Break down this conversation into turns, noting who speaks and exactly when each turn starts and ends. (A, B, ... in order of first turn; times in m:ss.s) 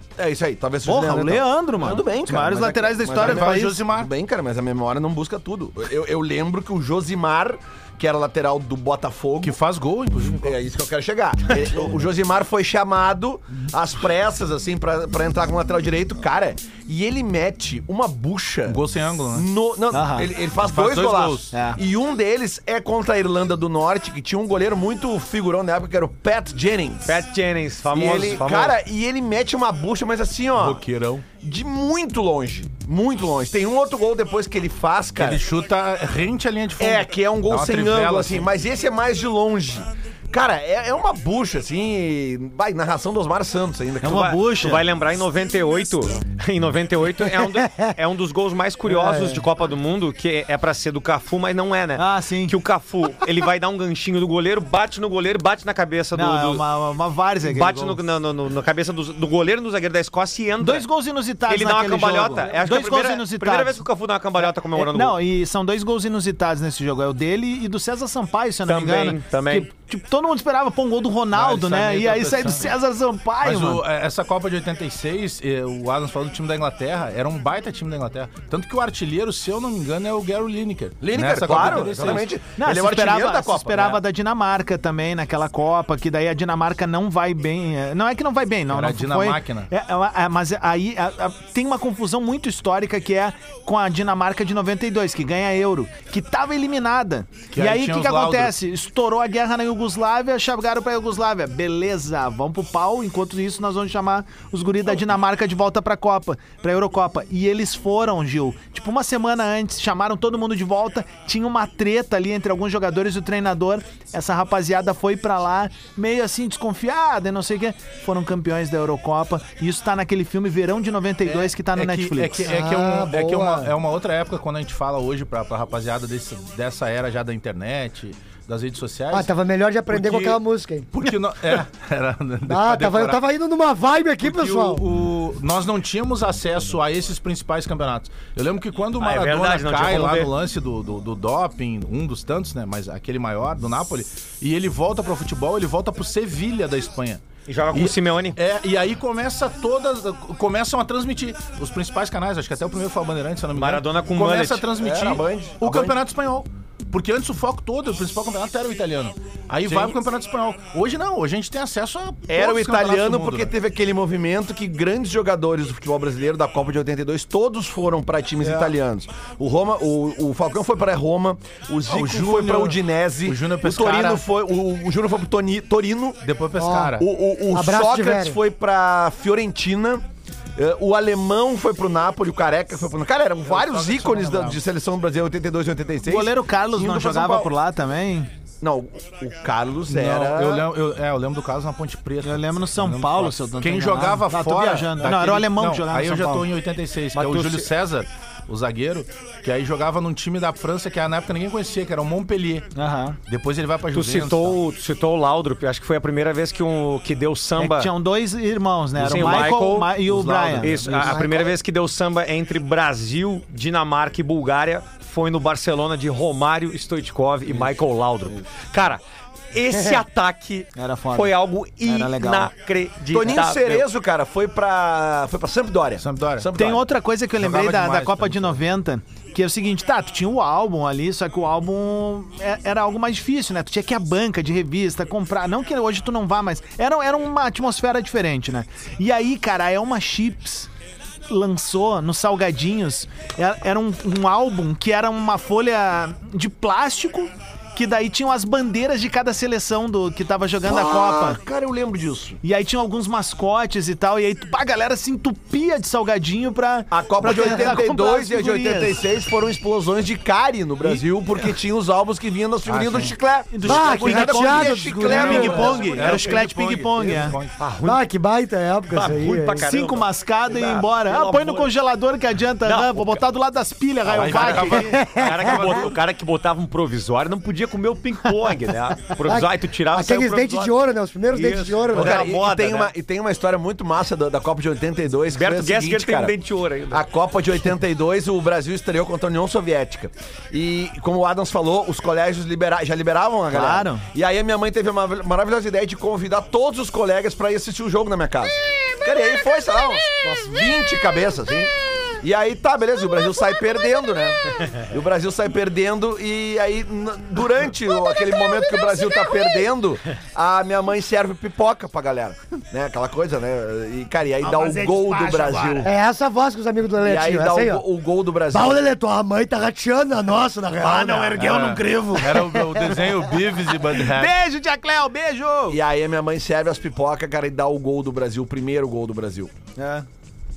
0:00.2-0:09.6 A
0:00.8-0:03.8 B
0:03.1-0:04.1 C
0:09.4-0:10.5 C
0:10.4-0:18.8 A
0:18.7-0:19.5 C
0:19.3-0:27.2 A
0:19.9-0:20.3 B
0:20.6-0:21.5 C
0:21.5-0:21.8 B
0:27.0-0:28.8 D
0:27.9-0:35.4 A
0:30.6-0:31.2 C
0:35.2-0:38.5 C
0:36.8-0:44.4 A
0:44.0-0:44.9 B
0:44.0-0:56.6 D
0:47.6-0:47.9 E
0:48.9-0:49.4 E
0:51.9-0:52.6 B
0:56.1-0:58.0 B
0:57.4-1:00.9 D
1:00.6-1:03.8 B
1:01.4-1:05.2 D
1:04.7-1:13.8 B
1:08.6-1:09.7 D
1:11.3-1:12.7 C
1:13.4-1:22.4 C
1:21.0-1:24.0 A
1:22.5-2:02.5 B
1:28.7-1:29.7 C
1:37.5-1:38.6 C
2:01.2-2:09.3 C
2:02.4-2:03.7 E
2:09.1-2:11.1 E
2:09.9-2:10.4 C
2:10.9-2:13.2 C
2:12.5-2:14.8 E
2:14.2-2:43.5 C
2:19.0-2:20.3 D
2:27.5-2:28.4 D
2:33.5-2:34.7 D
2:34.7-2:36.0 A
2:39.6-2:40.0 A
2:42.3-2:56.2 A
2:51.9-2:54.2 C
2:56.2-2:57.1 C
2:56.6-2:57.0 E
2:57.0-3:00.0 A
2:57.5-2:58.4 E
3:00.6-3:07.6 A
3:03.5-3:04.6 C
3:06.0-3:08.3 B
3:08.6-3:10.7 A
3:09.8-3:22.7 C
3:12.2-3:16.5 B
3:17.1-3:17.7 D
3:22.7-3:23.2 B
3:23.2-3:24.6 C
3:23.9-3:27.9 D
3:27.6-3:31.1 B
3:29.0-3:30.0 D
3:29.0-3:31.2 C
3:30.6-3:43.9 D
3:30.9-3:31.5 E
3:40.7-3:42.5 B
3:43.1-3:46.8 A
3:46.0-3:46.8 C
3:46.5-4:00.7 B
3:47.3-3:48.6 C
4:01.3-4:11.4 B
4:10.6-4:12.4 A
4:12.4-4:19.1 B
4:16.9-4:26.4 A
4:22.6-4:23.2 C
4:23.5-4:27.4 B
4:23.6-4:25.8 E
4:25.0-4:27.6 C
4:27.6-4:28.0 D
4:27.8-4:29.7 E
4:28.9-4:31.7 D
4:29.6-4:35.0 B
4:32.6-4:33.2 D
4:34.1-4:36.0 C
4:34.1-4:40.8 D
4:34.8-4:35.8 E
4:39.2-4:42.2 E
4:41.3-4:42.9 D
4:41.9-4:46.4 A
4:45.3-4:47.0 D
4:46.9-5:15.9 A
4:53.5-4:54.1 B
5:14.4-5:15.9 B
5:15.8-5:17.8 E
5:17.0-5:18.8 A
5:18.5-5:21.6 E
5:20.8-5:22.7 B
5:21.4-5:24.3 C
5:22.5-5:22.8 E
5:23.9-5:25.8 B
5:25.7-5:29.5 A
5:29.8-5:30.0 B